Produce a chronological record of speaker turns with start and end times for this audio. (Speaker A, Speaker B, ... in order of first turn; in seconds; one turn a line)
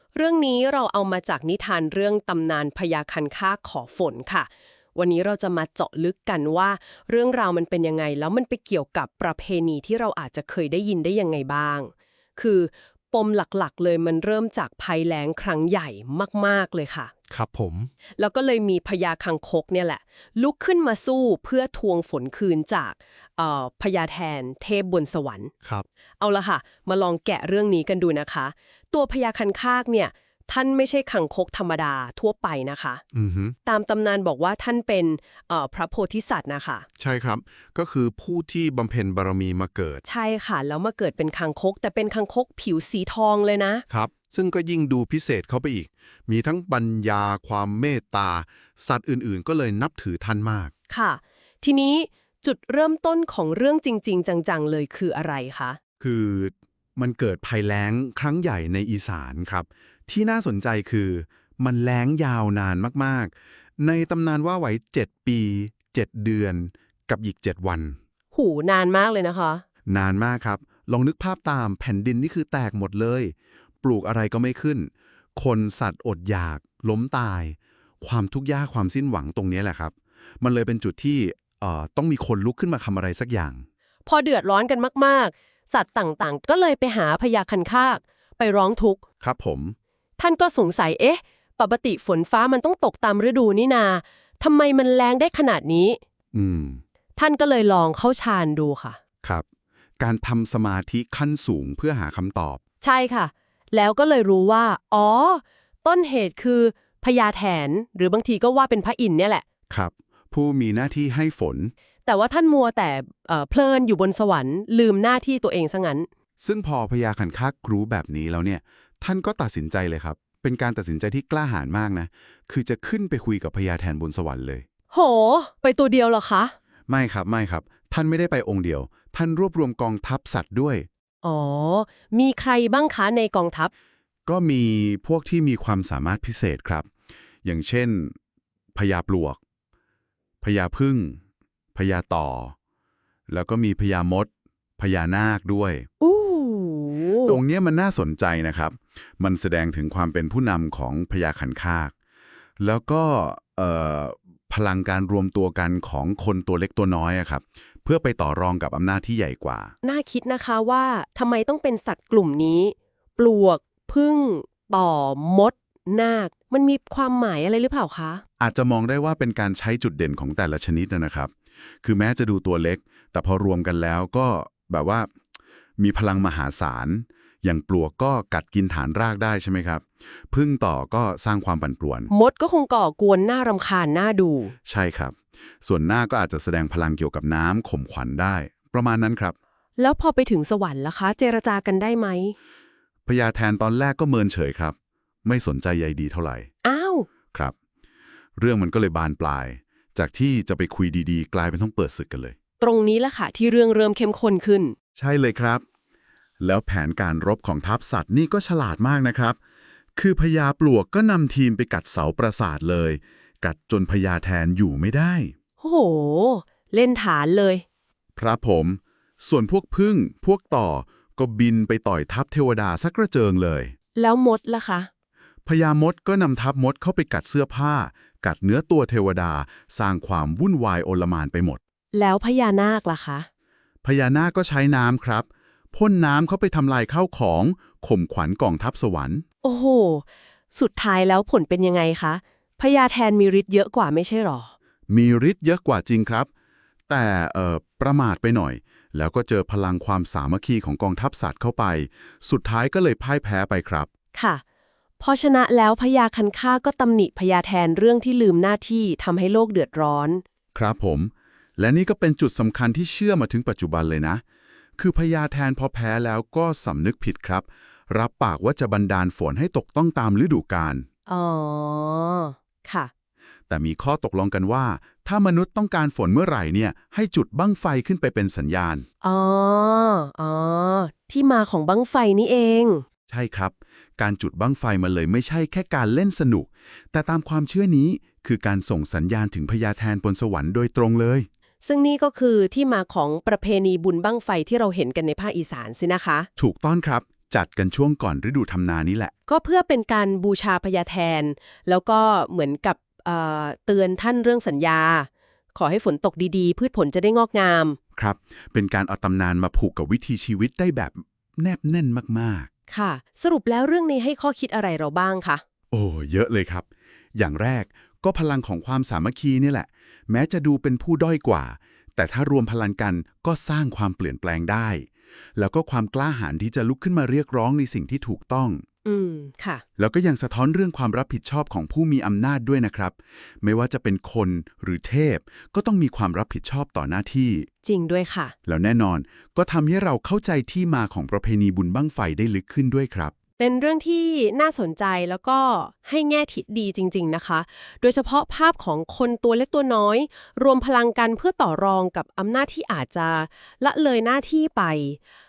Speaker A: 0.1-17.1
Speaker B: 17.3-17.9
Speaker A: 18.2-25.5
Speaker A: 26.2-33.0
Speaker B: 33.1-33.5
Speaker A: 33.6-36.9
Speaker B: 37.0-40.0
Speaker A: 40.0-43.8
Speaker B: 43.9-50.7
Speaker A: 50.9-55.8
Speaker B: 56.0-68.0
Speaker A: 68.3-69.6
Speaker B: 69.8-83.6
Speaker A: 84.0-89.0
Speaker B: 89.2-89.8
Speaker A: 90.2-96.0
Speaker B: 96.3-96.8
Speaker A: 97.2-99.0
Speaker B: 100.0-102.6
Speaker A: 102.8-109.4
Speaker B: 109.7-111.7
Speaker A: 112.0-116.1
Speaker B: 116.4-124.6
Speaker A: 124.9-126.5
Speaker B: 126.9-130.9
Speaker A: 131.2-133.7
Speaker B: 134.3-136.9
Speaker B: 137.4-138.1
Speaker B: 138.7-139.4
Speaker B: 140.4-141.2
Speaker B: 141.7-142.5
Speaker B: 143.3-145.9
Speaker A: 146.0-147.4
Speaker B: 147.2-151.9
Speaker B: 152.6-159.7
Speaker A: 159.8-168.2
Speaker B: 168.4-171.3
Speaker B: 171.8-175.1
Speaker B: 175.8-182.1
Speaker A: 182.1-184.5
Speaker B: 184.7-189.3
Speaker A: 189.8-192.3
Speaker B: 193.1-196.5
Speaker A: 196.6-197.1
Speaker B: 198.4-202.3
Speaker A: 202.6-204.7
Speaker B: 204.9-205.6
Speaker B: 206.4-209.4
Speaker B: 209.9-215.3
Speaker A: 215.6-217.6
Speaker B: 218.2-223.7
Speaker A: 223.9-224.9
Speaker B: 225.4-231.6
Speaker A: 231.9-233.3
Speaker B: 233.8-239.2
Speaker A: 239.4-244.5
Speaker B: 244.9-246.3
Speaker B: 246.9-253.9
Speaker A: 254.1-254.4
Speaker A: 255.0-260.2
Speaker B: 260.5-264.2
Speaker B: 264.8-270.9
Speaker A: 271.1-272.9
Speaker B: 273.5-278.9
Speaker A: 279.0-282.8
Speaker B: 283.1-291.3
Speaker A: 291.6-296.3
Speaker B: 296.4-299.1
Speaker A: 299.3-307.8
Speaker B: 308.0-312.5
Speaker A: 312.7-315.4
Speaker B: 315.7-328.6
Speaker A: 328.8-329.6
Speaker B: 329.8-337.5
Speaker A: 337.6-338.3
Speaker B: 338.4-343.1
Speaker A: 343.4-355.0